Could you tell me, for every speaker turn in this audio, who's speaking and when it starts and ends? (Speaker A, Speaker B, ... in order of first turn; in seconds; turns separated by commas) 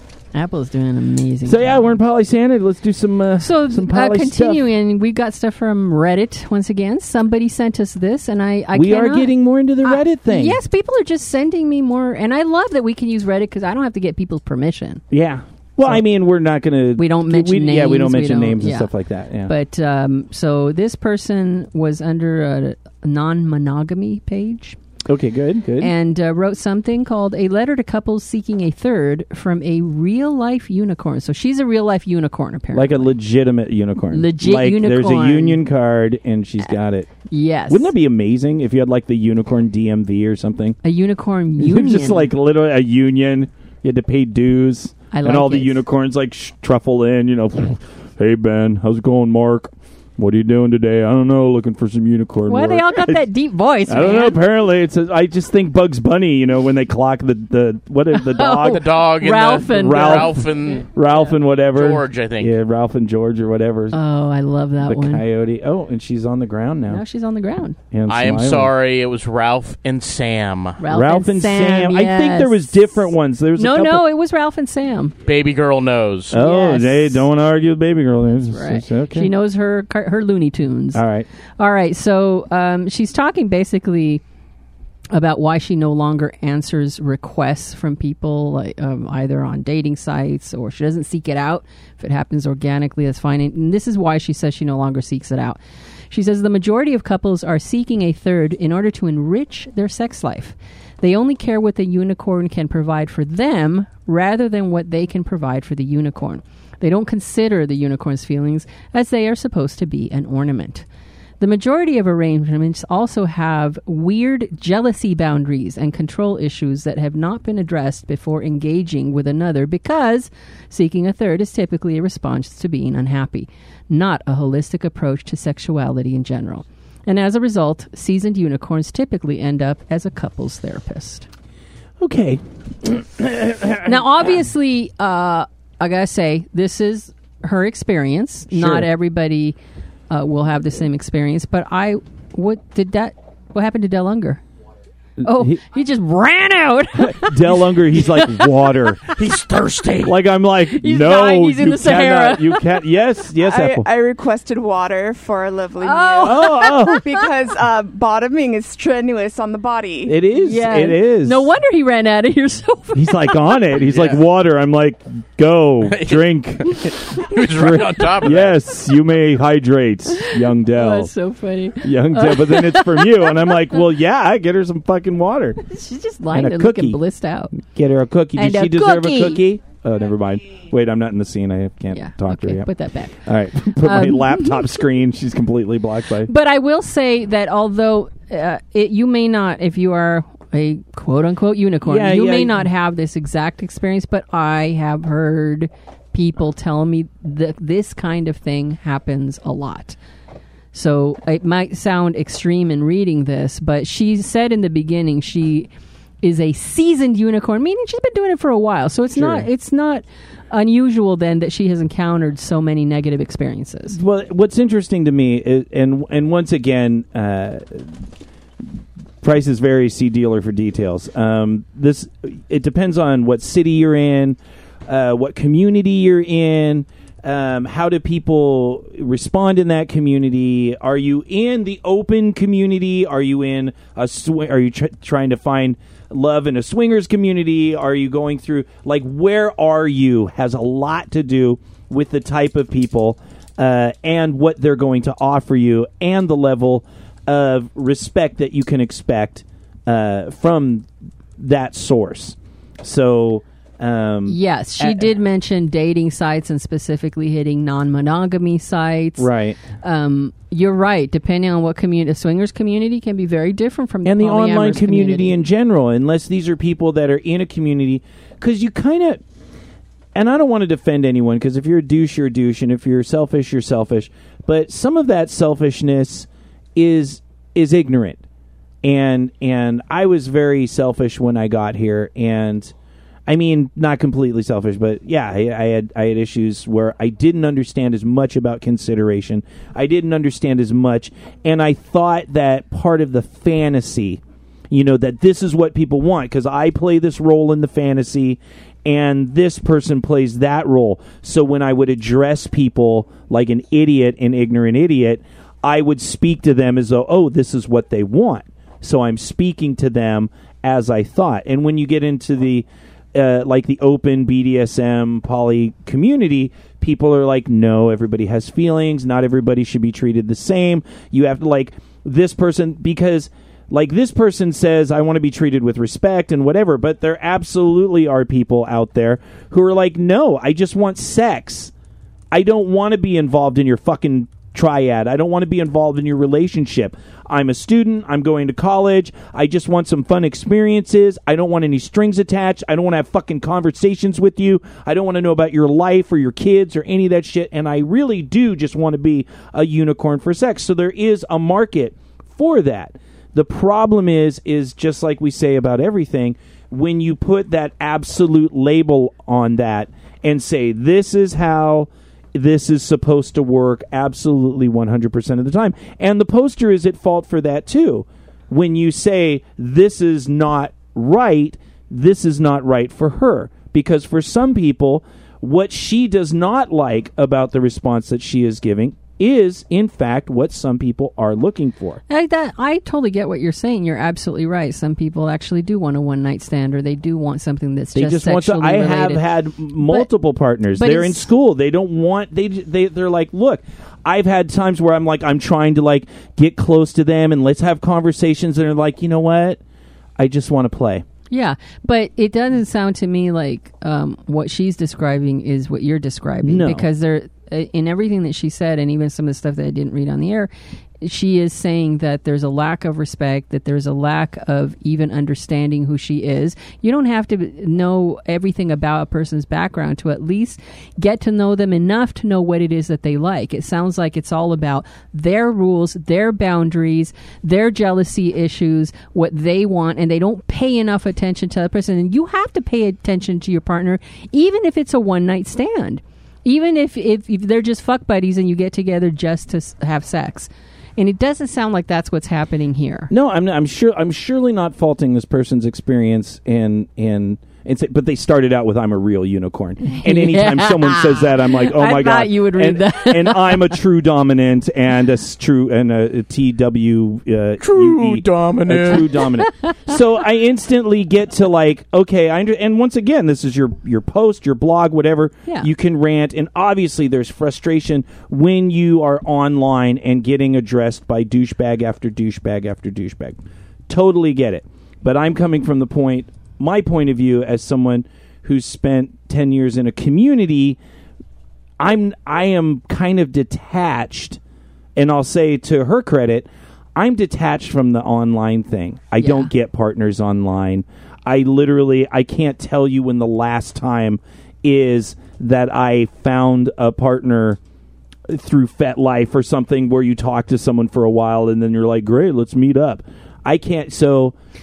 Speaker A: 0.3-2.0, Speaker B: 1.4-4.7, Speaker A: 3.4-15.0, Speaker B: 8.7-10.6, Speaker B: 15.1-19.5, Speaker A: 17.0-18.9, Speaker A: 19.5-24.8, Speaker B: 25.1-25.9, Speaker A: 25.8-33.1, Speaker B: 32.7-37.1, Speaker A: 34.1-35.6, Speaker A: 37.3-37.9, Speaker B: 37.7-40.8, Speaker A: 40.8-42.3, Speaker B: 41.6-53.2, Speaker A: 45.1-45.8, Speaker A: 52.5-54.4, Speaker B: 53.9-58.9, Speaker A: 58.1-60.8, Speaker C: 58.5-62.5, Speaker B: 59.7-64.0, Speaker A: 63.9-65.2, Speaker B: 64.8-67.0, Speaker A: 66.9-67.8, Speaker B: 67.9-68.7, Speaker C: 68.1-70.8, Speaker A: 70.8-72.8, Speaker B: 70.8-74.0, Speaker A: 73.5-75.1, Speaker C: 75.2-76.4, Speaker B: 76.3-79.3, Speaker A: 76.3-77.2, Speaker A: 78.5-81.0, Speaker B: 80.9-81.3, Speaker A: 81.6-84.2, Speaker A: 85.1-95.6, Speaker A: 96.1-110.8, Speaker A: 111.4-131.3, Speaker B: 132.0-134.2, Speaker A: 133.8-139.6, Speaker B: 138.5-138.9, Speaker A: 140.1-144.4, Speaker B: 145.2-145.6, Speaker A: 145.2-148.7, Speaker B: 147.0-149.1, Speaker C: 149.1-150.2, Speaker B: 150.0-153.9, Speaker A: 150.7-152.8, Speaker D: 153.4-160.2, Speaker A: 155.8-157.2, Speaker B: 156.2-157.0, Speaker B: 160.0-161.5, Speaker A: 160.4-163.6, Speaker B: 162.9-171.1, Speaker C: 163.8-164.2, Speaker C: 165.8-168.6, Speaker A: 170.2-173.6, Speaker B: 171.8-175.6, Speaker A: 175.7-177.6, Speaker B: 176.3-177.0, Speaker B: 177.5-182.7, Speaker A: 178.3-179.4, Speaker A: 181.9-184.6, Speaker B: 183.2-186.3, Speaker A: 186.3-200.0, Speaker B: 191.8-192.7, Speaker A: 200.7-205.7, Speaker A: 206.2-214.0, Speaker B: 209.1-209.5, Speaker B: 213.9-218.0, Speaker B: 219.2-250.9, Speaker B: 251.4-255.1, Speaker A: 254.2-259.3, Speaker B: 259.2-259.6, Speaker A: 259.8-265.4, Speaker B: 264.0-269.2, Speaker B: 270.1-278.2, Speaker B: 278.8-282.7, Speaker B: 283.3-331.7, Speaker B: 332.3-382.0, Speaker A: 382.1-389.2, Speaker B: 387.9-399.6, Speaker A: 389.8-390.1, Speaker A: 390.7-391.2, Speaker B: 400.2-401.0, Speaker A: 401.3-410.5, Speaker B: 406.4-406.9, Speaker A: 411.0-443.1, Speaker B: 443.1-480.8, Speaker A: 449.9-453.8, Speaker C: 457.6-459.2, Speaker A: 459.4-459.7, Speaker B: 481.8-484.4, Speaker B: 484.9-497.6, Speaker A: 489.2-489.5, Speaker B: 498.3-504.3